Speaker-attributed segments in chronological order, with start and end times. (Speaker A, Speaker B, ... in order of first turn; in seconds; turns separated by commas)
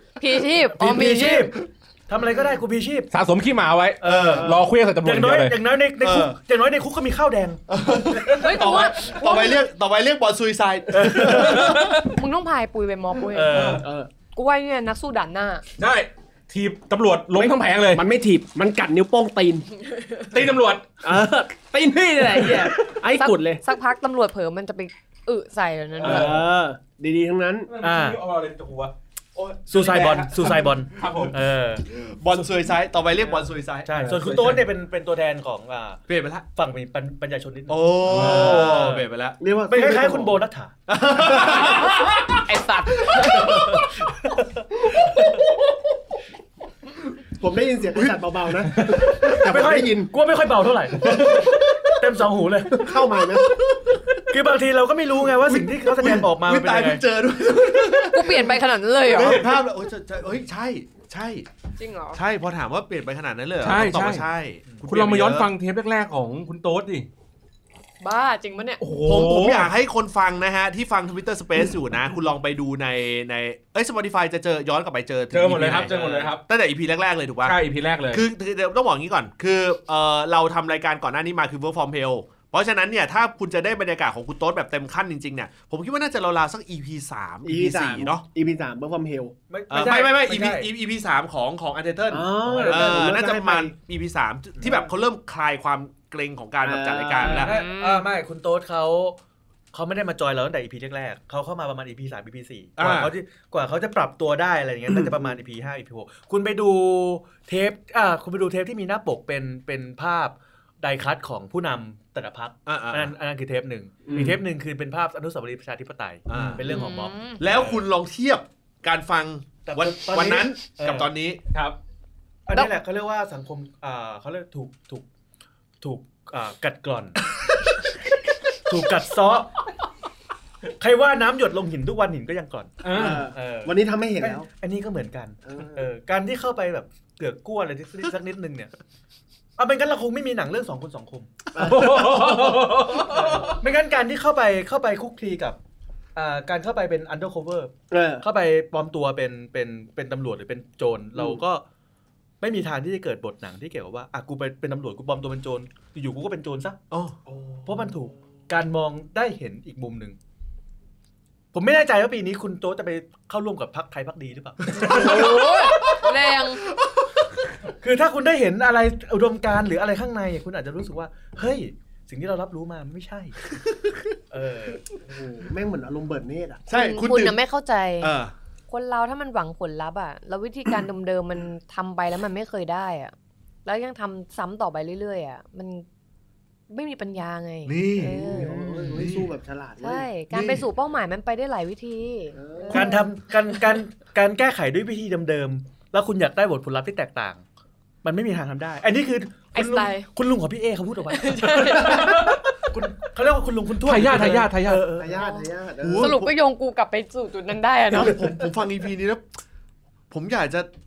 Speaker A: 0.2-1.5, Speaker B: 0.8-3.1, Speaker C: 3.1-5.6, Speaker B: 4.0-7.6, Speaker D: 4.3-4.6, Speaker E: 6.0-6.4, Speaker E: 7.7-11.7, Speaker A: 8.3-9.6, Speaker B: 10.9-11.8, Speaker C: 11.2-12.1, Speaker A: 11.9-13.8, Speaker B: 13.3-13.8, Speaker C: 13.5-13.8, Speaker D: 13.8-14.1, Speaker A: 14.3-15.6, Speaker C: 15.8-18.0, Speaker D: 17.4-19.7, Speaker C: 20.3-20.9, Speaker D: 21.0-23.6, Speaker A: 22.1-26.3, Speaker C: 26.0-26.4, Speaker D: 26.0-27.7, Speaker C: 27.7-31.4, Speaker B: 27.8-28.2, Speaker B: 29.7-31.9, Speaker E: 31.9-33.9, Speaker B: 33.9-36.0, Speaker C: 33.9-34.6, Speaker E: 36.1-36.5, Speaker B: 36.5-39.1, Speaker E: 37.7-39.4, Speaker C: 38.0-38.8, Speaker D: 39.4-40.4, Speaker B: 39.7-40.7, Speaker E: 40.9-44.0, Speaker D: 41.2-41.7, Speaker B: 43.5-44.6, Speaker D: 47.4-50.1, Speaker B: 48.7-53.0, Speaker E: 51.2-51.9, Speaker D: 52.7-53.6, Speaker E: 53.3-54.2, Speaker B: 54.3-57.0, Speaker E: 55.4-61.5, Speaker A: 58.0-59.5, Speaker A: 61.8-62.2, Speaker E: 62.1-65.5, Speaker C: 63.6-64.3, Speaker C: 64.8-67.1, Speaker A: 68.0-68.8, Speaker C: 68.8-69.7, Speaker E: 69.0-77.6, Speaker C: 75.3-76.4, Speaker B: 75.7-76.3, Speaker C: 77.4-78.2, Speaker E: 78.1-88.2, Speaker D: 87.4-89.3, Speaker B: 89.5-90.7, Speaker E: 89.7-97.6, Speaker D: 92.1-93.7, Speaker B: 92.4-93.0, Speaker D: 96.6-97.4, Speaker B: 97.2-99.2, Speaker A: 97.3-98.1, Speaker B: 99.7-117.8, Speaker E: 102.8-103.1, Speaker E: 112.7-113.1, Speaker D: 114.0-114.4, Speaker E: 116.3-116.7, Speaker A: 116.6-117.4, Speaker E: 117.4-121.4, Speaker B: 119.6-121.1, Speaker B: 122.5-125.0, Speaker B: 125.8-127.2, Speaker B: 128.7-129.5, Speaker B: 130.8-138.7, Speaker C: 132.8-133.3, Speaker D: 132.9-134.5, Speaker D: 135.4-135.9, Speaker B: 139.6-145.6, Speaker D: 141.5-142.5, Speaker C: 141.6-143.6, Speaker B: 146.1-151.6, Speaker D: 147.9-148.2, Speaker B: 152.4-156.8, Speaker E: 156.9-157.2, Speaker B: 157.6-160.2, Speaker B: 161.5-165.9, Speaker E: 164.8-166.1, Speaker A: 164.8-166.7, Speaker E: 166.8-167.1, Speaker B: 167.8-173.4, Speaker E: 173.5-174.1, Speaker B: 174.3-174.9, Speaker D: 174.9-176.7, Speaker E: 176.7-177.4, Speaker A: 176.7-178.1, Speaker E: 178.0-178.3, Speaker A: 178.7-183.1, Speaker A: 183.6-185.8, Speaker A: 186.7-188.6, Speaker E: 187.7-189.3, Speaker D: 188.1-190.1, Speaker A: 189.8-193.1, Speaker E: 190.3-190.6, Speaker D: 192.3-193.0, Speaker B: 192.7-197.4, Speaker B: 198.0-205.2, Speaker A: 199.5-200.1, Speaker A: 201.1-202.2, Speaker C: 201.8-202.4, Speaker C: 203.8-204.9, Speaker D: 205.0-206.1, Speaker A: 205.1-208.2, Speaker E: 205.8-206.3, Speaker E: 207.9-209.2, Speaker E: 210.1-210.7